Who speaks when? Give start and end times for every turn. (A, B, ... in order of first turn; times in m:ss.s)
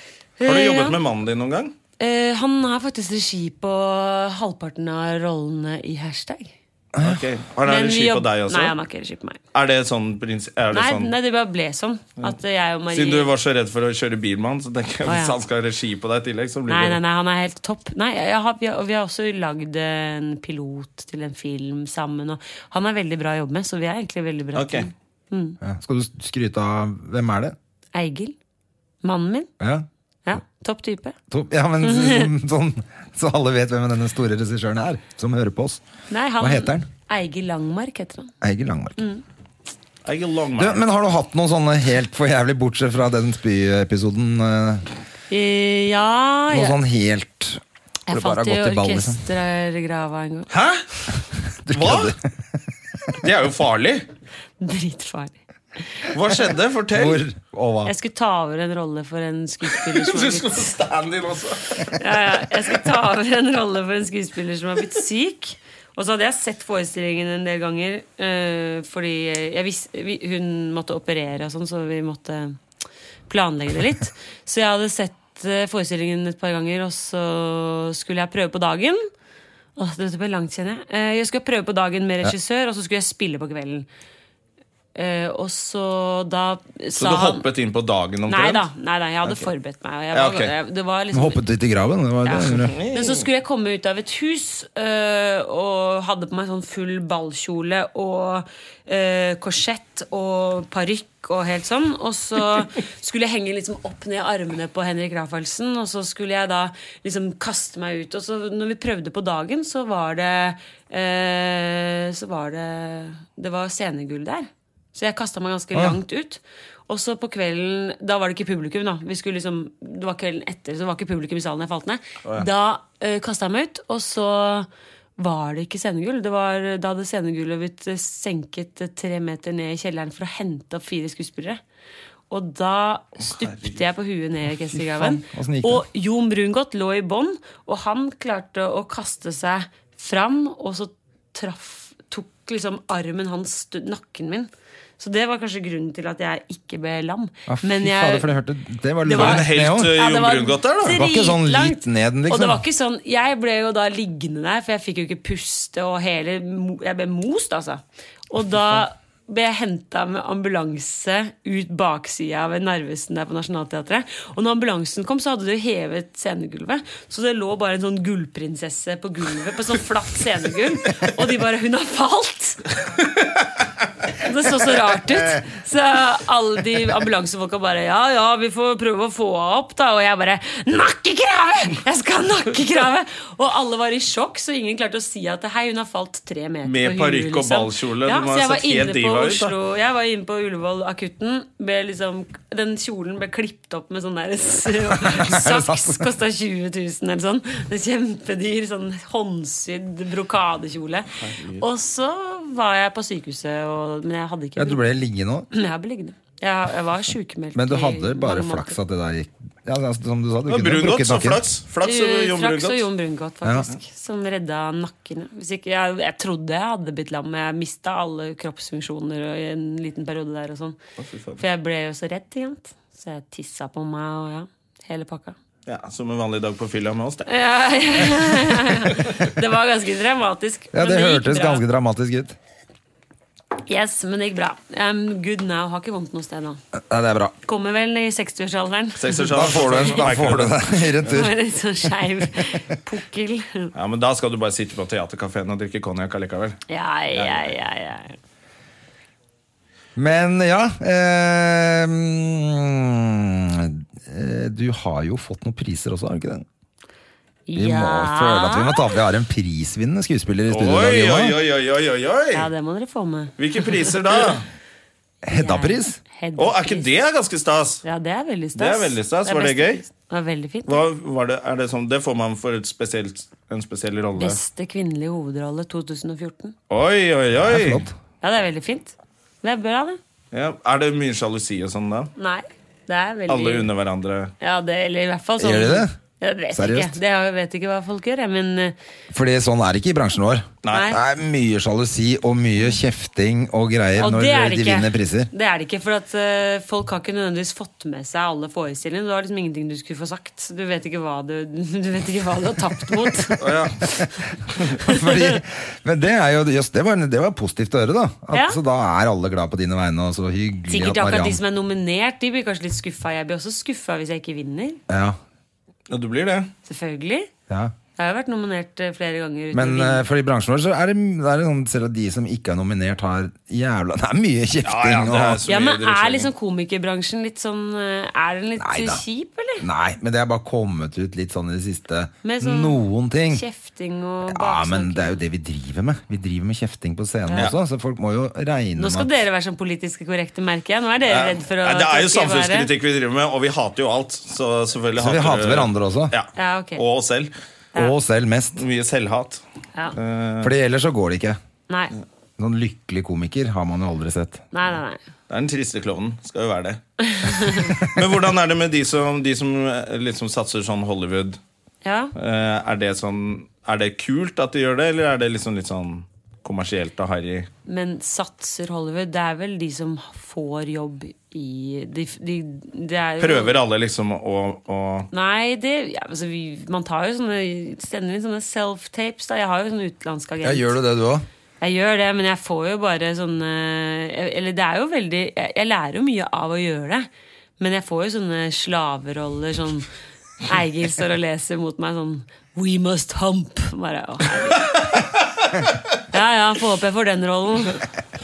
0:00.4-0:01.0 A
0:00.4-0:01.7 B
0:02.0-0:06.5 A
0:06.9-0:07.2 C
0:07.0-0:08.7 B
0:07.6-0:09.4 A
0:09.5-0:11.1 B
0:10.7-0:13.3 A
0:12.9-0:17.0 B
0:15.0-0:15.4 A
0:16.7-0:25.6 A
0:24.5-0:24.9 B
0:25.6-0:27.6 C
0:27.9-0:28.4 A
0:29.0-0:29.5 A
0:29.6-0:29.9 C
0:30.2-0:31.2 A
0:31.3-0:35.8 C
0:31.8-0:32.3 A
0:36.1-0:38.3 A
0:36.4-0:36.9 C
0:38.4-0:39.0 C
0:39.0-0:39.2 A
0:40.0-0:40.8 B
0:40.6-0:44.8 C
0:45.3-0:46.8 A
0:46.5-0:49.2 C
0:48.1-0:50.5 A
0:50.5-0:50.8 B
0:51.6-0:52.2 C
0:51.7-0:52.1 B
0:53.2-0:54.0 B
0:54.6-0:56.1 A
0:56.1-0:57.2 B
0:56.9-0:57.9 C
0:57.8-1:00.7 A
0:59.7-1:02.0 B
1:01.9-1:12.6 A
1:13.3-1:19.1 A
1:19.8-1:23.9 A
1:24.9-1:27.4 A
1:27.0-1:28.6 B
1:28.3-1:31.4 A
1:30.1-1:30.5 B
1:31.1-1:32.7 C
1:32.2-2:11.6 A
1:32.5-1:33.2 B
2:12.3-2:28.3 A
2:13.3-2:13.8 B
2:14.7-2:15.8 C
2:27.5-2:30.0 C
2:29.0-2:52.7 A
2:29.1-2:31.0 B
2:30.8-2:32.6 C
2:54.2-3:24.8 A
3:06.6-3:09.5 B
3:14.9-3:16.1 C
3:21.2-3:21.6 B
3:24.6-3:25.5 C
3:25.5-3:28.8 A
3:27.5-3:31.4 C
3:30.5-3:32.9 B
3:31.8-3:40.8 A
3:41.0-3:41.4 B
3:41.4-3:45.4 A
3:45.6-3:47.3 B
3:47.3-3:51.6 A
3:50.7-3:52.4 C
3:53.6-3:56.6 A
3:56.7-3:57.3 C
3:57.4-3:59.9 A
3:59.0-4:00.7 B
3:59.3-4:01.3 C
4:01.0-4:03.7 A
4:03.7-4:06.6 B
4:06.7-4:08.2 A
4:07.1-4:07.5 B
4:10.0-4:16.4 C
4:17.5-4:19.0 A
4:17.6-4:21.4 C
4:20.5-4:22.5 B
4:22.3-4:23.9 A
4:23.4-4:24.4 B
4:25.2-4:26.0 C
4:25.2-4:26.9 A
4:26.4-4:27.8 B
4:27.8-4:30.8 A
4:28.6-4:29.8 B
4:30.7-4:34.4 B
4:34.1-4:36.5 A
4:36.7-4:37.8 B
4:37.4-4:37.9 C
4:38.2-4:40.0 A
4:40.3-4:42.1 B
4:42.2-4:43.7 A
4:43.3-4:44.3 B
4:44.4-4:48.7 A
4:45.4-4:45.9 C
4:46.5-4:47.0 C
4:49.1-4:55.3 C
4:50.6-4:50.9 B
4:50.7-4:51.0 A
4:54.0-5:04.0 A
5:03.4-5:03.8 B
5:04.8-5:11.4 C
5:04.8-5:05.4 A
5:08.3-5:08.6 A
5:10.7-5:14.8 A
5:14.9-5:15.2 C
5:15.9-5:16.5 B
5:16.6-5:17.3 A
5:17.5-5:17.7 C
5:18.0-5:20.0 A
5:19.5-5:25.4 C
5:24.6-5:26.3 B
5:25.5-5:29.6 A
5:28.6-5:29.0 C
5:29.6-5:33.4 C
5:32.2-5:35.2 A
5:34.2-5:39.1 C
5:38.8-5:42.7 A
5:41.1-5:47.3 B
5:45.0-5:46.1 C
5:46.4-5:46.8 A
5:47.7-5:48.6 C
5:48.6-5:49.4 B
5:50.0-5:50.5 B
5:50.4-5:51.4 C
5:51.7-5:51.9 A
5:52.4-5:54.4 C
5:54.5-5:55.0 A
5:55.3-6:01.4 B
5:57.0-5:57.7 A
6:01.8-6:02.1 A
6:02.1-6:07.5 B
6:07.6-6:13.6 A
6:13.2-6:15.1 B
6:15.1-6:20.8 A
6:20.4-6:21.3 C
6:21.6-6:29.9 A
6:30.4-6:34.8 A
6:36.1-6:37.9 A